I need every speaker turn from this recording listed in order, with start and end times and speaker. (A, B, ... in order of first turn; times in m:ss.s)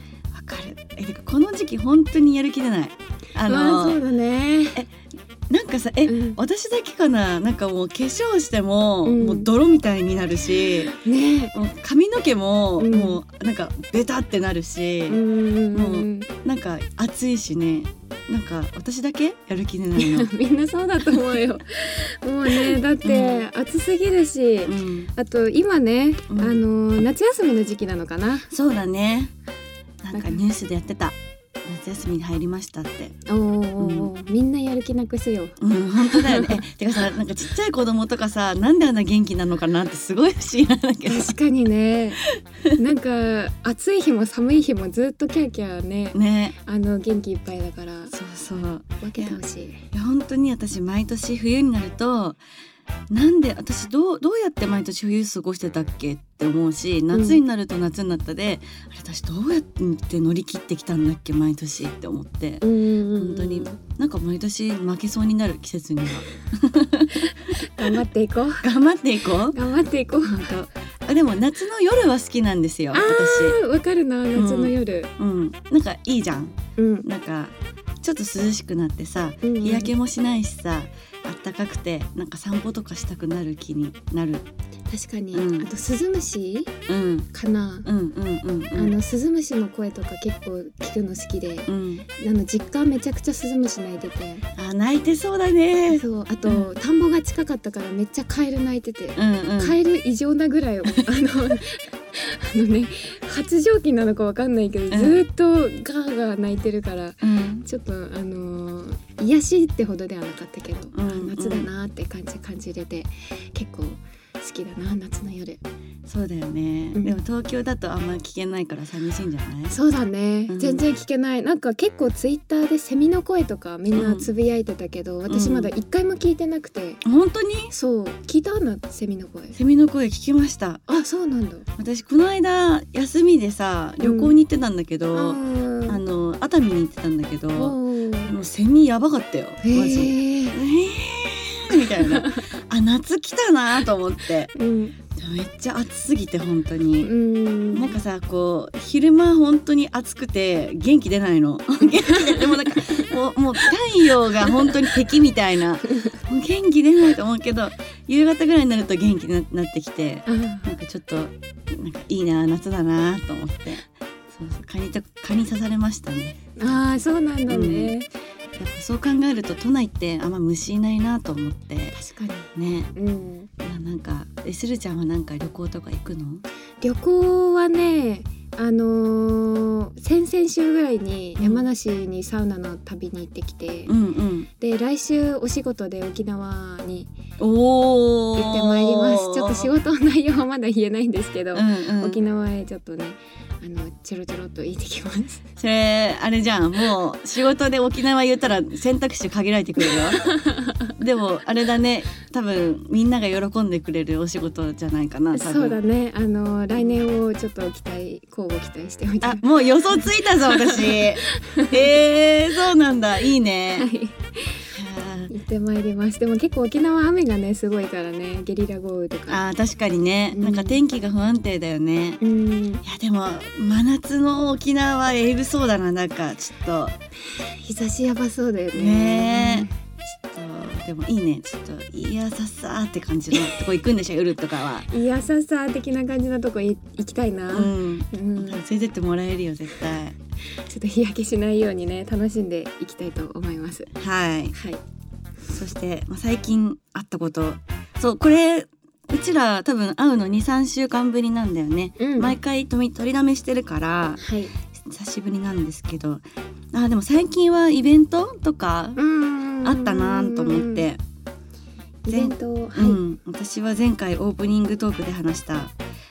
0:00.3-0:04.0 A
0:03.4-0:04.8 B
0:05.5-0:11.0 A
0:06.1-0:06.4 B
0:09.0-0:09.5 B
0:10.9-0:11.6 B
0:11.5-0:15.2 A
0:12.8-0:13.2 B
0:15.1-0:16.3 B
0:15.7-0:20.3 A
0:20.0-0:28.5 B
0:21.1-0:21.4 A
0:22.5-0:23.5 A
0:24.7-0:25.1 A
0:26.3-0:26.6 A
0:28.5-0:29.3 A
0:30.0-0:33.2 A
0:30.1-0:30.4 B
0:33.3-0:36.7 B
0:33.8-0:34.1 A
0:35.6-0:41.4 A
0:41.1-0:42.2 B
0:42.8-0:48.1 B
0:46.1-0:46.6 A
0:48.1-0:49.4 A
0:49.0-0:49.8 B
0:49.9-0:52.4 A
0:53.1-1:02.6 A
0:57.1-0:57.4 B
1:02.6-1:03.8 B
1:03.2-1:08.0 A
1:07.3-1:08.7 B
1:08.6-1:09.6 A
1:09.5-1:10.5 B
1:10.2-1:13.6 A
1:12.9-1:15.1 B
1:14.3-1:24.5 A
1:16.8-1:17.1 B
1:19.4-1:19.9 B
1:24.9-1:26.7 B
1:25.3-1:25.7 A
1:26.9-1:27.3 A
1:27.3-1:27.9 B
1:27.8-1:29.0 A
1:28.8-1:34.5 B
1:31.7-1:32.1 A
1:34.6-1:36.7 A
1:35.9-1:55.6 B
1:39.2-1:39.8 A
1:44.9-1:45.2 A
1:47.2-1:47.7 A
1:50.9-1:51.7 A
1:56.1-1:59.8 A
1:59.7-2:07.0 B
2:00.5-2:00.8 A
2:03.9-2:04.3 A
2:05.3-2:05.7 A
2:07.0-2:07.7 A
2:07.7-2:09.6 B
2:09.5-2:10.8 A
2:10.9-2:11.7 B
2:11.8-2:24.5 A
2:14.0-2:14.3 B
2:15.1-2:16.0 B
2:17.6-2:18.3 B
2:19.6-2:20.6 B
2:21.8-2:22.4 B
2:24.5-2:25.0 B
2:25.2-2:27.1 A
2:27.0-2:28.0 B
2:27.7-2:48.0 A
2:32.0-2:33.1 B
2:34.5-2:34.8 B
2:35.9-2:36.2 B
2:40.3-2:40.8 B
2:46.6-2:48.1 B
2:48.6-2:52.0 A
2:51.9-2:53.5 B
2:52.6-2:52.9 A
2:53.6-2:56.4 A
2:56.8-3:03.9 B
3:01.4-3:01.7 A
3:03.9-3:04.5 A
3:04.6-3:07.1 B
3:07.4-3:09.7 A
3:08.4-3:15.5 B
3:11.5-3:12.2 A
3:15.6-3:20.3 A
3:20.3-3:20.8 B
3:20.9-3:25.8 A
3:25.3-3:31.8 B
3:26.8-3:27.0 A
3:29.2-3:33.9 A
3:33.8-3:34.6 B
3:34.7-3:35.3 A
3:35.3-3:39.4 B
3:39.3-3:42.2 A
3:40.3-3:40.8 B
3:42.2-3:42.8 B
3:42.8-3:47.0 A
3:47.6-3:49.7 B
3:48.7-3:54.9 A
3:54.9-3:58.6 B
3:57.5-4:00.2 A
4:00.6-4:03.9 B
4:04.0-4:04.5 A
4:04.5-4:04.8 B
4:05.5-4:14.2 A
4:12.0-4:12.4 B
4:14.2-4:14.5 B
4:14.8-4:19.0 A
4:19.0-4:20.9 B
4:19.6-4:21.0 A
4:22.1-4:23.0 B
4:22.1-4:25.8 A